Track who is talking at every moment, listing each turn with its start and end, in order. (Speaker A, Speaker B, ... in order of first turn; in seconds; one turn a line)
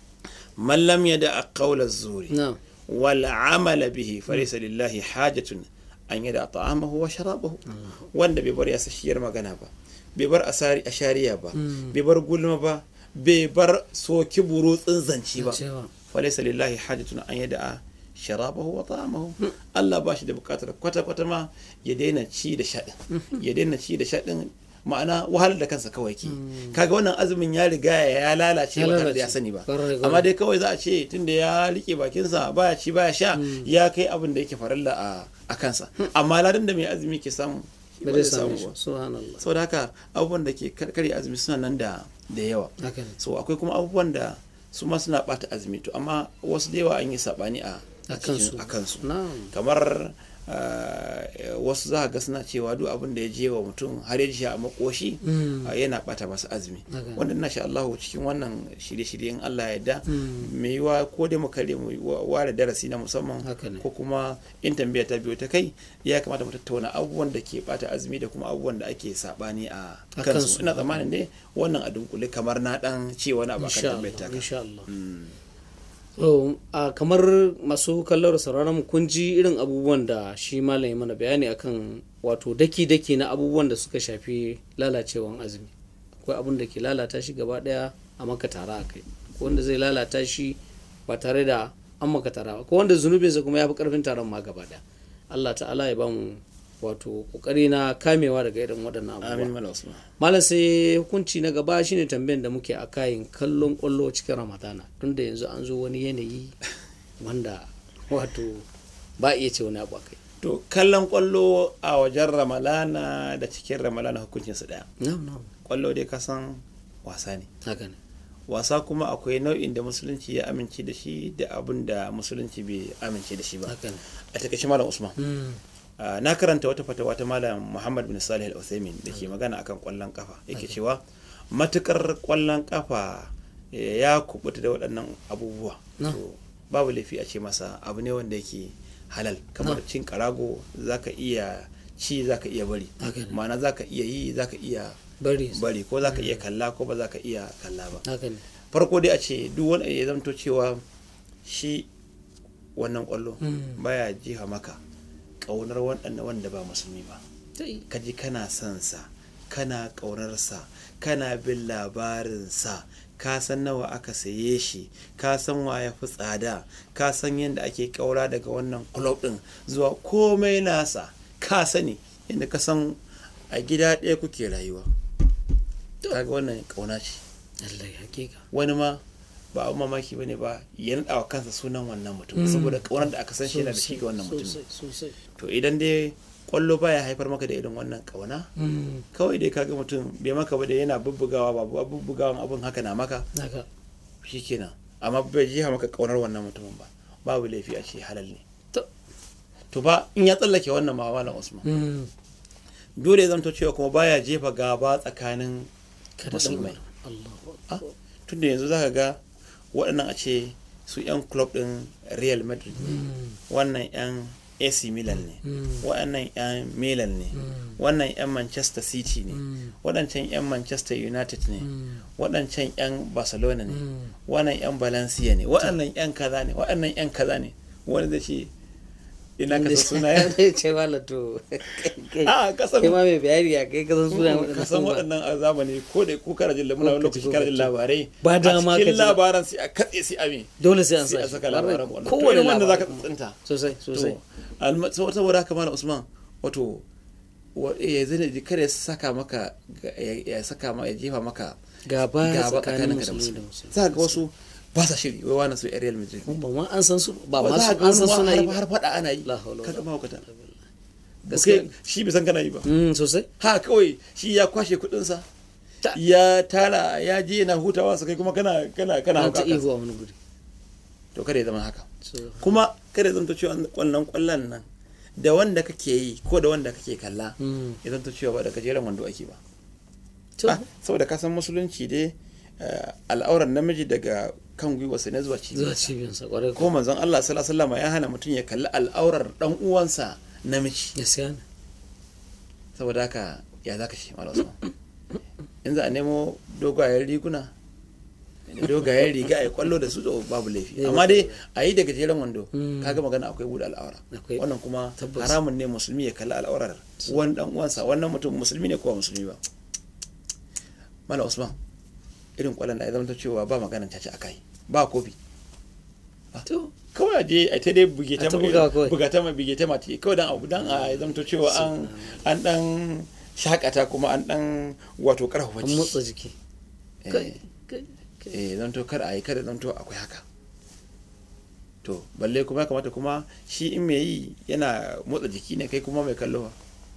Speaker A: 0.6-38.8
Speaker B: 2.3-2.6
Speaker B: 7.7-8.1
Speaker B: 11.6-11.9
Speaker B: 15.4-15.9
Speaker B: 23.1-23.4
Speaker B: 26.2-26.8
Speaker B: 28.8-30.3
Speaker B: 33.3-33.7
Speaker B: 38.0-39.4
Speaker A: 39.4-75.3
Speaker B: 42.8-43.2
Speaker B: 48.1-49.5
Speaker B: 55.2-55.7
Speaker B: 56.9-57.2
Speaker B: 60.1-60.5
Speaker B: 63.4-63.8
Speaker B: 70.1-71.0
Speaker B: 73.6-74.9
Speaker B: 76.2-99.5
Speaker A: 99.2-100.0
Speaker B: 100.2-106.5
Speaker B: 107.2-108.7
Speaker B: 109.2-110.2
Speaker A: 110.4-114.9
Speaker B: 115.0-115.5
Speaker A: 115.6-117.5
Speaker B: 117.6-118.0
Speaker A: 118.5-123.8
Speaker B: 123.7-124.0
Speaker A: 124.3-125.2
Speaker B: 125.2-125.6
Speaker A: 126.0-145.0
Speaker B: 143.0-143.4
Speaker B: 145.2-146.4
Speaker A: 145.5-148.0
Speaker B: 148.0-148.4
Speaker A: 148.7-150.8
Speaker A: 151.4-151.9
Speaker A: 152.8-154.8
Speaker B: 153.4-153.8
Speaker A: 155.4-157.2
Speaker B: 157.6-157.8
Speaker A: 157.9-173.0
Speaker A: 173.5-174.9
Speaker A: 176.1-177.2
Speaker B: 177.6-178.4
Speaker A: 178.5-179.0
Speaker A: 179.5-184.6
Speaker B: 182.3-185.2
Speaker A: 185.3-188.5
Speaker B: 188.6-189.1
Speaker A: 189.1-193.3
Speaker B: 193.3-193.7
Speaker A: 194.2-198.4
Speaker A: 199.7-201.7
Speaker B: 201.6-202.1
Speaker A: 203.0-205.7
Speaker B: 206.2-207.9
Speaker A: 206.3-206.8
Speaker A: 207.7-209.2
Speaker A: 209.7-228.5
Speaker B: 212.8-213.4
Speaker B: 215.4-215.8
Speaker B: 217.3-217.8
Speaker B: 219.3-219.7
Speaker B: 221.6-222.0
Speaker B: 223.7-224.1
Speaker A: 229.4-230.4
Speaker B: 229.5-235.1
Speaker A: 232.2-233.0
Speaker A: 234.1-243.4
Speaker B: 236.8-239.2
Speaker B: 240.6-244.2
Speaker A: 243.9-246.8
Speaker A: 247.5-251.6
Speaker B: 251.9-254.2
Speaker A: 252.2-256.4
Speaker B: 256.2-258.6
Speaker A: 257.4-260.2
Speaker B: 259.2-260.6
Speaker A: 261.2-262.6
Speaker B: 261.3-261.7
Speaker B: 262.6-263.3
Speaker A: 263.4-265.2
Speaker A: 265.9-269.6
Speaker B: 269.1-270.1
Speaker A: 271.1-271.9
Speaker B: 272.0-272.6
Speaker A: 272.4-274.6
Speaker A: 275.2-279.4
Speaker B: 277.4-277.8
Speaker B: 280.4-280.6
Speaker A: 280.4-285.9
Speaker B: 285.5-286.7
Speaker A: 286.5-290.9
Speaker B: 290.9-291.4
Speaker A: 292.7-294.6
Speaker A: 295.6-297.5
Speaker A: 298.5-309.4
Speaker B: 300.8-301.4
Speaker B: 302.5-303.0
Speaker B: 304.1-304.4
Speaker B: 305.0-305.4
Speaker A: 311.1-311.6
Speaker A: 312.4-315.1
Speaker A: 316.3-326.0
Speaker B: 316.4-316.7
Speaker B: 318.2-318.9
Speaker B: 320.6-322.2
Speaker B: 325.6-326.3
Speaker A: 327.0-327.4
Speaker B: 327.1-328.3
Speaker A: 328.3-330.2
Speaker A: 331.8-336.5